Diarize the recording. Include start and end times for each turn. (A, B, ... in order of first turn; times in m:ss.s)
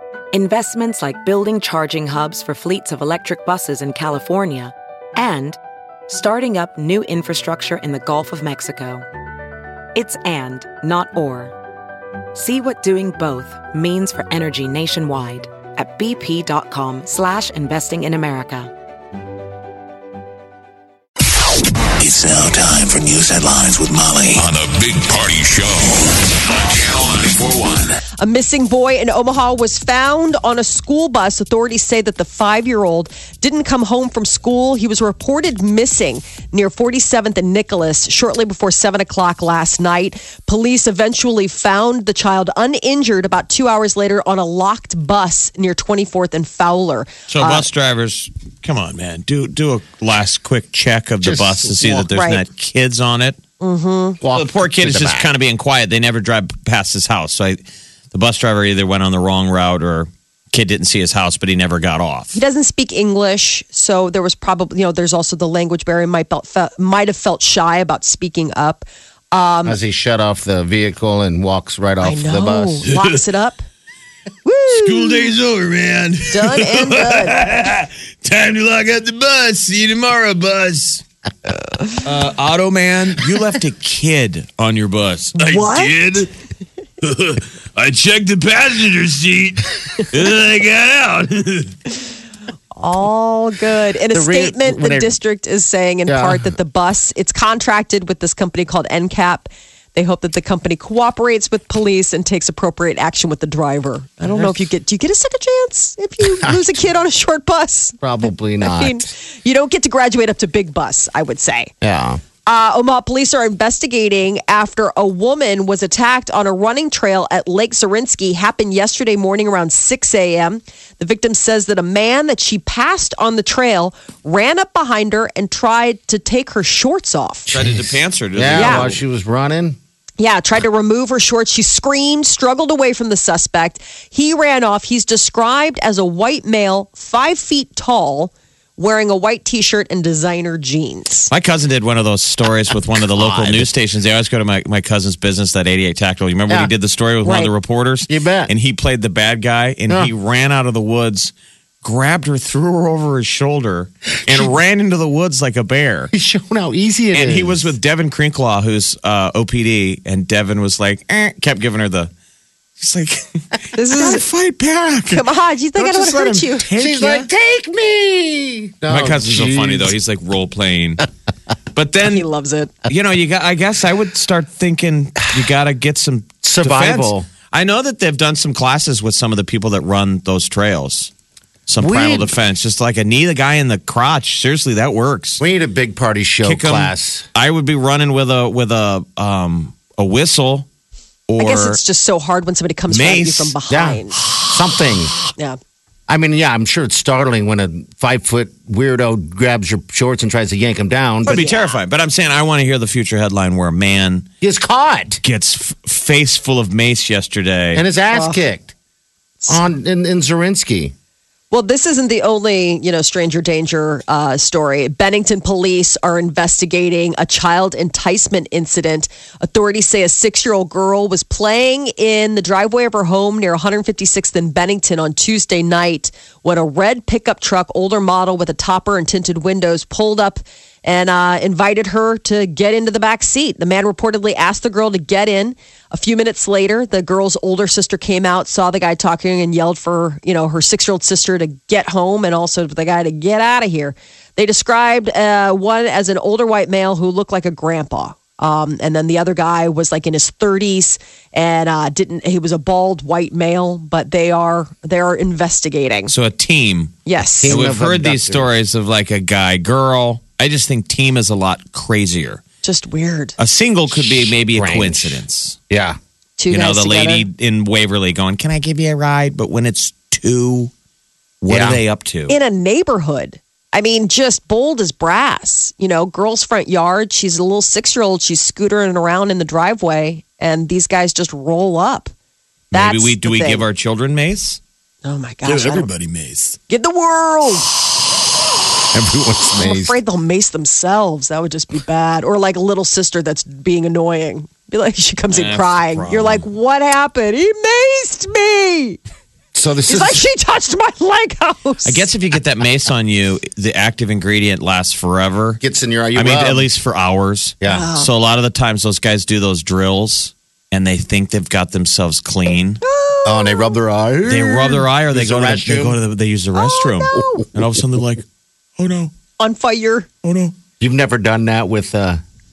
0:00.3-0:09.1 A
0:10.0-0:11.5 A
0:12.3-0:18.7 A
0:22.0-0:28.0 B
0:28.2-0:47.7 C
0:47.3-0:53.4 D
0:51.2-0:52.1 E
0:52.1-0:52.4 C
0:53.6-0:54.2 C
0:54.2-0:55.3 E
0:54.3-0:57.6 D
0:58.1-1:02.4 D
1:02.3-1:09.8 C
1:09.6-1:12.9 E
1:12.0-1:13.6 C
1:12.9-1:13.2 D
1:14.4-1:15.4 C
1:14.7-1:21.0 D
1:16.3-1:17.4 C
1:22.0-1:26.3 D
1:25.4-1:25.9 C
1:27.0-1:31.8 D
1:32.8-1:48.0 C
1:34.1-1:35.2 E
1:36.1-1:36.6 E
1:44.3-1:44.5 E
1:46.2-1:46.8 E
1:48.0-1:49.1 E
1:48.6-1:51.7 C
1:51.8-1:52.2 E
1:52.5-2:07.5 C
2:07.5-2:09.8 E
2:07.5-2:09.0 D
2:08.5-2:08.9 C
2:10.2-2:21.3 C
2:21.3-2:31.3 D
2:23.0-2:23.7 E
2:27.2-2:27.5 C
2:28.1-2:28.5 E
2:31.8-2:36.1 D
2:36.1-2:37.7 E
2:37.1-2:42.1 D
2:42.8-2:43.4 D
2:43.8-2:44.2 C
2:43.9-2:45.2 D
2:45.1-2:46.8 C
2:45.8-2:49.9 E
2:46.4-2:47.3 D
2:48.9-2:51.1 D
2:51.7-2:52.3 D
2:52.0-2:52.7 C
2:52.9-3:01.1 D
2:56.4-2:57.3 E
3:01.7-3:05.4 D
3:01.8-3:02.3 E
3:05.4-3:07.3 E
3:06.4-3:10.7 D
3:11.3-3:11.8 D
3:11.4-3:14.2 C
3:12.9-3:13.6 D
3:13.7-3:15.1 E
3:14.2-3:14.9 D
3:16.1-3:21.4 E
3:21.3-3:21.7 C
3:21.3-3:24.3 D
3:24.4-3:25.2 E
3:25.2-3:27.8 D
3:27.7-3:28.7 E
3:28.1-3:28.4 C
3:29.5-3:30.9 E
3:31.5-4:16.1 C
4:16.1-4:22.4 D
4:17.1-4:17.6 C
4:17.4-4:18.5 E
4:22.6-4:23.3 C
4:23.4-4:25.6 D
4:23.9-4:26.0 E
4:26.4-4:27.2 C
4:26.5-4:30.7 D
4:31.4-4:32.4 D
4:31.5-4:31.8 E
4:32.3-4:42.1 C
4:42.7-4:43.6 C
4:42.7-4:44.6 D
4:45.0-4:45.9 C
4:45.4-4:46.6 D
4:46.7-4:47.7 C
4:48.9-4:50.0 E
4:49.6-4:59.0 C
4:55.3-4:56.5 D
4:59.5-5:00.2 E
4:59.9-5:02.1 C
5:01.8-5:05.6 D
5:05.6-5:06.7 E
5:06.2-5:12.8 D
5:07.6-5:07.9 E
5:07.7-5:08.1 C
5:12.8-5:13.8 C
5:13.2-5:16.0 E
5:14.2-5:18.2 D
5:16.6-5:17.5 C
5:18.8-5:19.1 D
5:19.4-5:20.1 C
5:20.2-5:20.5 D
5:20.8-5:22.2 E